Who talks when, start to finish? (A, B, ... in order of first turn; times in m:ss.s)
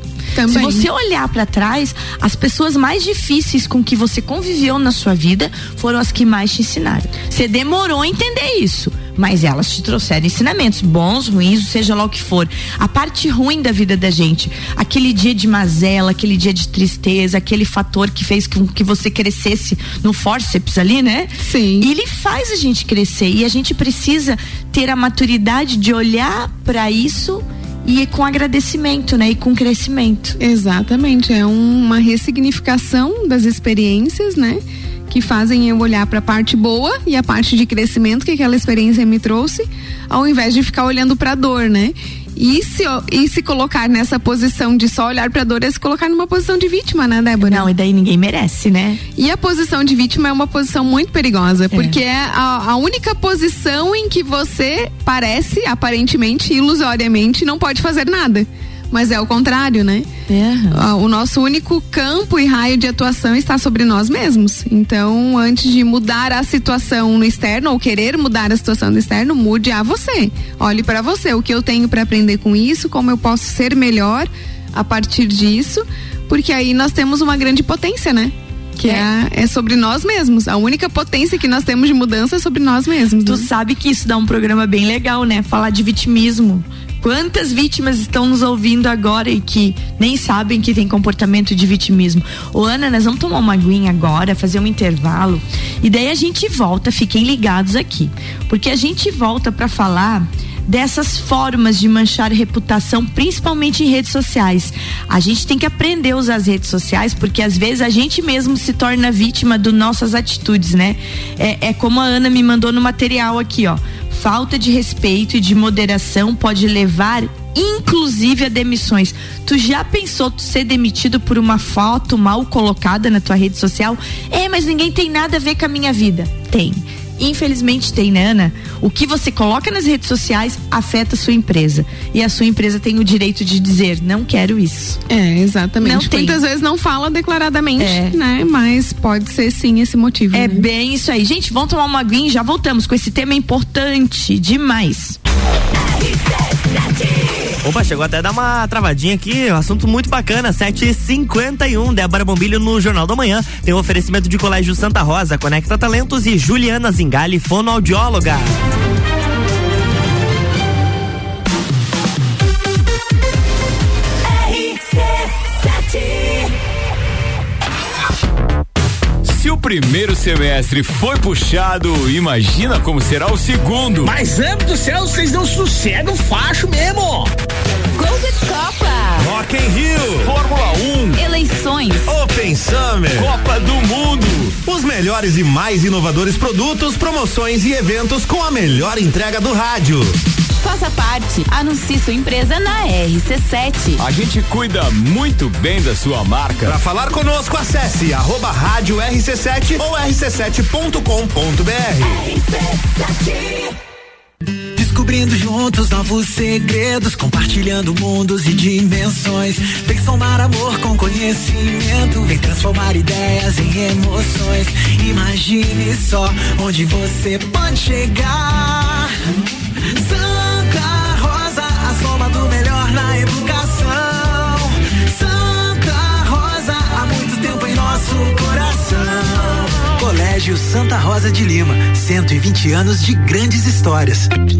0:00.3-0:00.9 A
0:00.5-0:30.4 B
0:21.4-0:21.9 A
0:30.4-0:47.7 A
0:47.4-0:49.0 B
0:49.2-1:00.1 A
0:51.7-0:52.0 B
1:00.3-1:00.8 B
1:00.7-1:23.5 A
1:23.2-2:15.0 B
2:15.1-2:20.6 A
2:15.8-2:16.4 B
2:17.8-2:18.2 B
2:20.3-2:25.2 B
2:27.6-2:38.4 C
2:49.2-2:54.2 D
2:54.1-2:57.3 E
2:57.9-2:59.3 F
2:59.2-3:00.4 G
3:00.2-3:01.2 D
3:01.2-3:02.1 F
3:02.0-3:03.4 G
3:03.2-3:04.5 D
3:04.6-3:10.1 G
3:10.6-3:14.0 F
3:14.0-3:16.8 D
3:16.6-3:22.2 G
3:23.1-3:23.6 F
3:24.8-3:39.1 H
3:39.8-3:54.3 H